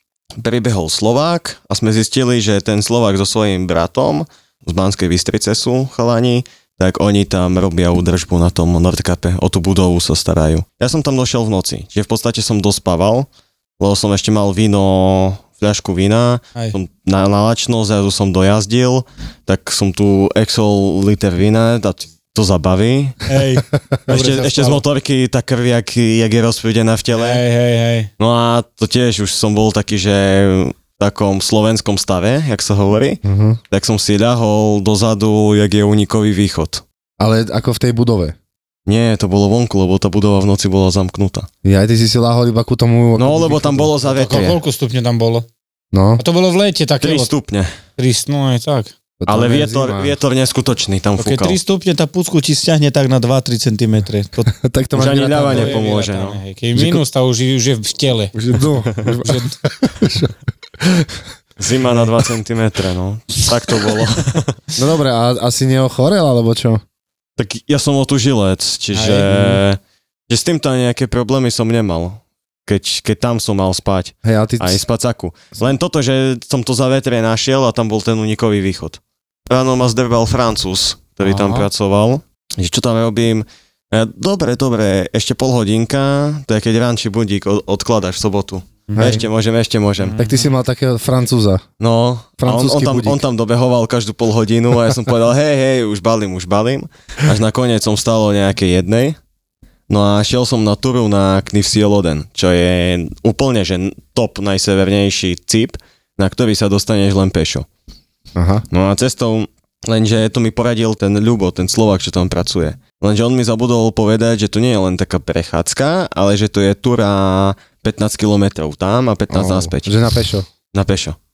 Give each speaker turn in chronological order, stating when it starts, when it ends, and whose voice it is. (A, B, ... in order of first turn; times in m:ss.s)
0:00.4-0:13.3 A
0:13.8-0:23.3 A
0:23.3-0:24.8 B
0:23.7-0:24.0 C
0:24.1-0:27.4 A
0:27.1-0:28.1 B
0:28.2-0:36.8 A
0:33.2-0:33.6 C
0:37.2-0:38.3 C
0:38.8-0:41.5 A
0:41.6-0:44.5 C
0:43.2-0:44.6 A
0:44.1-0:45.5 B
0:45.9-0:46.2 C
0:46.2-0:47.3 B
0:47.0-0:47.7 A
0:48.0-0:48.9 B
0:49.2-0:50.2 C
0:49.3-0:51.6 A
0:51.2-0:54.5 B
0:54.5-0:55.8 C
0:55.0-0:56.4 A
0:55.1-0:58.3 B
0:56.8-0:57.0 C
0:58.3-1:01.1 C
0:59.2-0:59.6 B
1:01.6-1:04.6 A
1:04.8-1:06.8 C
1:07.4-1:30.2 A
1:08.9-1:09.4 B
1:14.2-1:14.8 C
1:21.2-1:21.7 B
1:28.9-1:29.2 B
1:28.9-1:29.2 C
1:30.0-1:30.5 B
1:30.2-1:31.6 C
1:31.8-1:39.2 A
1:32.4-1:33.2 C
1:39.9-1:47.6 A
1:48.3-1:48.6 C
1:48.7-2:00.0 A
1:59.3-2:00.5 C
2:00.7-2:01.2 A